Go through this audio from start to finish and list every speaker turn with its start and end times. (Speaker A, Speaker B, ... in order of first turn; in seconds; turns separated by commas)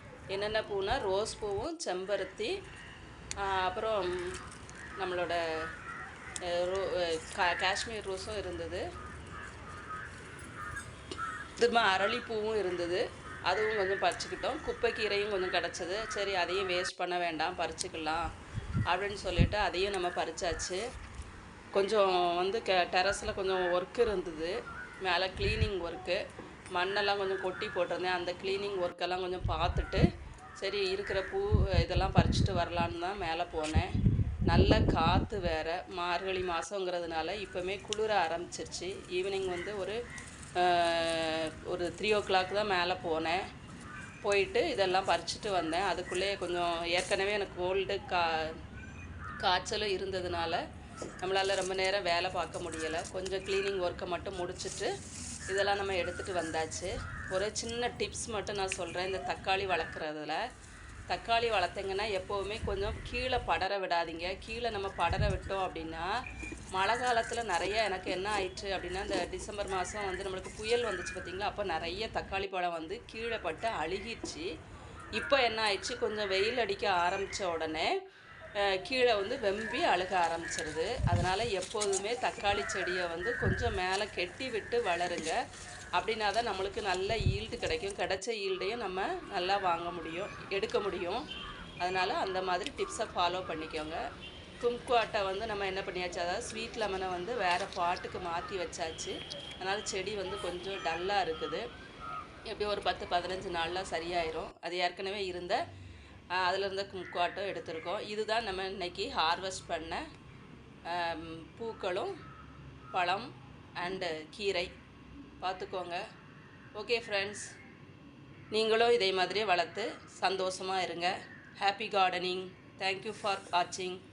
Speaker A: 0.3-2.6, Speaker A: 3.4-4.4, Speaker A: 5.0-5.4, Speaker A: 6.5-8.9, Speaker A: 11.6-18.3, Speaker A: 18.9-20.8, Speaker A: 21.8-26.2, Speaker A: 26.7-30.1, Speaker A: 30.6-33.9, Speaker A: 34.5-40.0, Speaker A: 40.6-43.4, Speaker A: 44.2-48.6, Speaker A: 49.4-50.6, Speaker A: 51.2-54.9, Speaker A: 55.5-60.4, Speaker A: 61.1-66.1, Speaker A: 66.7-74.5, Speaker A: 75.2-77.9, Speaker A: 78.6-85.4, Speaker A: 86.0-91.2, Speaker A: 91.8-94.0, Speaker A: 94.6-101.6, Speaker A: 102.5-105.6, Speaker A: 106.4-110.0, Speaker A: 110.9-112.1, Speaker A: 112.9-114.7, Speaker A: 115.4-116.0, Speaker A: 116.8-117.5, Speaker A: 118.5-124.0